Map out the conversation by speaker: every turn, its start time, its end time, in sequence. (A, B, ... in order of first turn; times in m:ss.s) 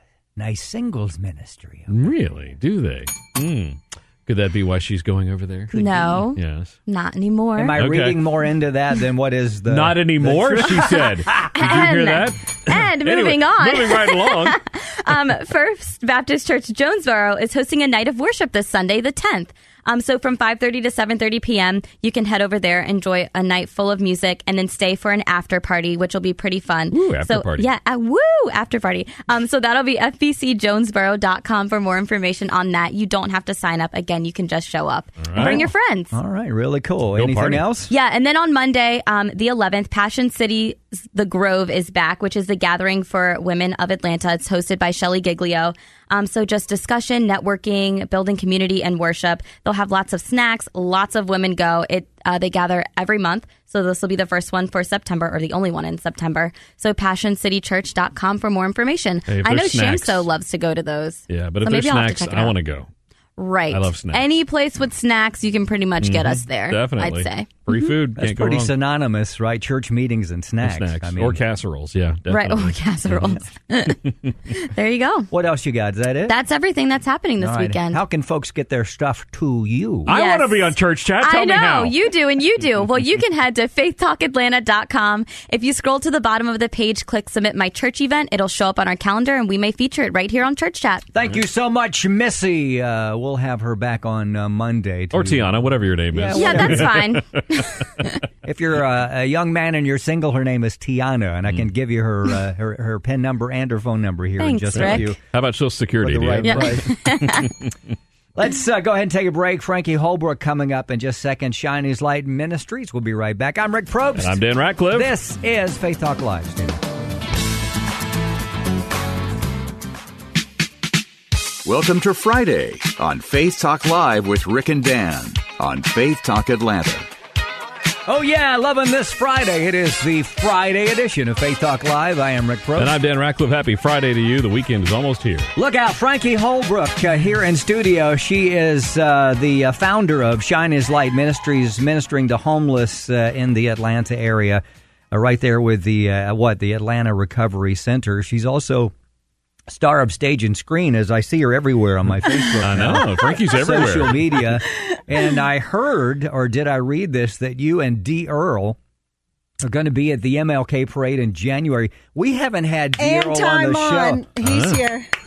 0:00.4-0:02.0 A
0:01.9-0:05.7 B
0:05.7-0:06.2 A
0:05.7-0:07.8 C
0:06.3-0:06.7 B
0:07.6-0:11.5 A
0:07.8-0:08.2 B
0:09.7-0:14.6 B
0:11.5-0:36.1 C
0:26.9-0:27.7 B
0:35.2-0:35.6 B
0:35.4-0:37.9 A
0:37.2-0:37.6 B
0:37.9-1:02.5 C
0:59.3-1:00.2 B
1:01.3-1:02.9 B
1:03.4-1:07.9 C
1:03.7-1:04.2 B
1:06.0-1:08.7 B
1:08.2-1:11.4 A
1:10.6-1:13.4 B
1:12.3-1:15.3 C
1:15.3-1:16.4 A
1:16.3-1:18.0 C
1:17.4-1:20.1 A
1:20.1-1:21.9 B
1:20.1-1:20.7 C
1:21.2-1:31.0 C
1:31.1-1:37.0 A
1:35.1-1:37.8 B
1:36.3-1:38.1 C
1:38.4-1:45.2 A
1:44.4-1:45.1 C
1:44.7-1:47.7 B
1:46.0-1:46.9 A
1:46.4-1:47.5 C
1:48.4-1:54.4 A
1:54.2-1:55.1 B
1:54.9-1:56.8 A
2:01.6-2:07.1 D
2:08.1-2:13.0 A
2:12.8-2:15.5 B
2:15.6-2:28.9 A
2:29.7-2:38.8 A
2:32.6-2:34.3 B
2:39.6-2:44.2 A
2:43.0-2:45.0 E
2:44.4-2:44.8 B